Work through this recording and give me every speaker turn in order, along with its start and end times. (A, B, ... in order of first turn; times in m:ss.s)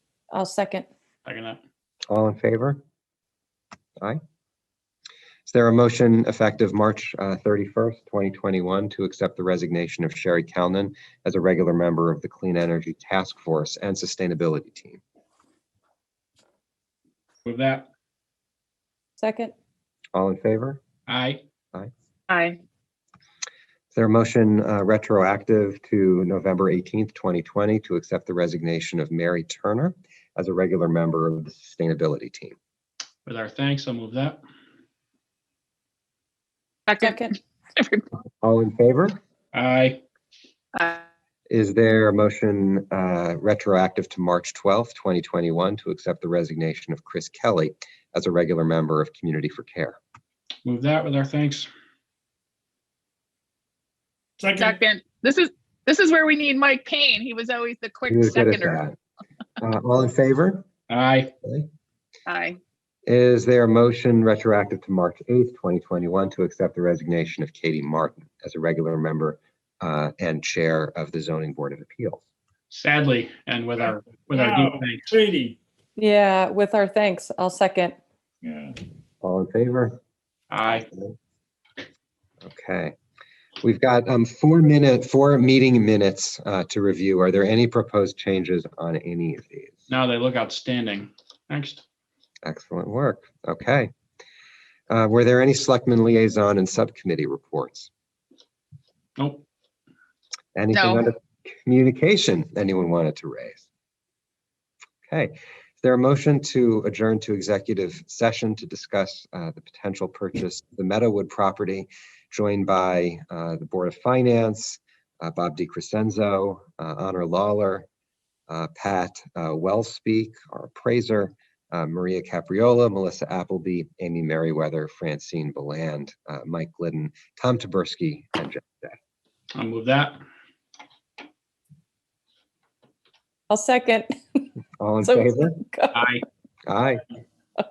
0:00.3-0:00.9 A
0:01.2-0:01.6 B
0:02.1-0:02.8 C
0:05.5-0:15.0 C
0:17.4-0:17.9 B
0:19.2-0:19.5 A
0:20.1-0:20.8 C
0:21.1-0:21.4 B
0:22.3-0:22.6 D
0:23.9-0:32.6 C
0:33.2-0:34.4 B
0:36.9-0:37.2 D
0:37.0-0:37.4 A
0:37.8-0:38.0 D
0:38.4-0:39.2 C
0:39.5-0:40.0 B
0:40.7-0:41.0 D
0:41.5-0:50.0 C
0:50.6-0:51.7 B
0:54.4-0:54.8 E
0:54.6-0:58.8 D
0:58.1-0:59.0 C
0:59.6-1:00.6 C
1:00.9-1:01.3 B
1:01.4-1:01.7 C
1:02.2-1:02.6 D
1:03.0-1:12.2 C
1:12.7-1:15.1 B
1:14.3-1:15.6 E
1:16.0-1:18.0 A
1:18.4-1:18.8 E
1:19.2-1:20.0 C
1:20.5-1:20.8 B
1:20.7-1:21.2 C
1:22.4-1:22.9 C
1:23.6-1:29.8 C
1:29.9-1:31.8 B
1:32.4-1:33.9 C
1:34.9-1:37.9 C
1:39.2-1:39.4 B
1:40.5-1:43.6 C
1:40.7-1:41.0 D
1:45.1-1:57.9 C
1:58.5-2:09.0 C
2:09.5-2:10.2 B
2:13.5-2:14.5 A
2:14.8-2:15.6 C
2:15.0-2:16.1 A
2:15.9-2:16.2 B
2:16.6-2:17.0 C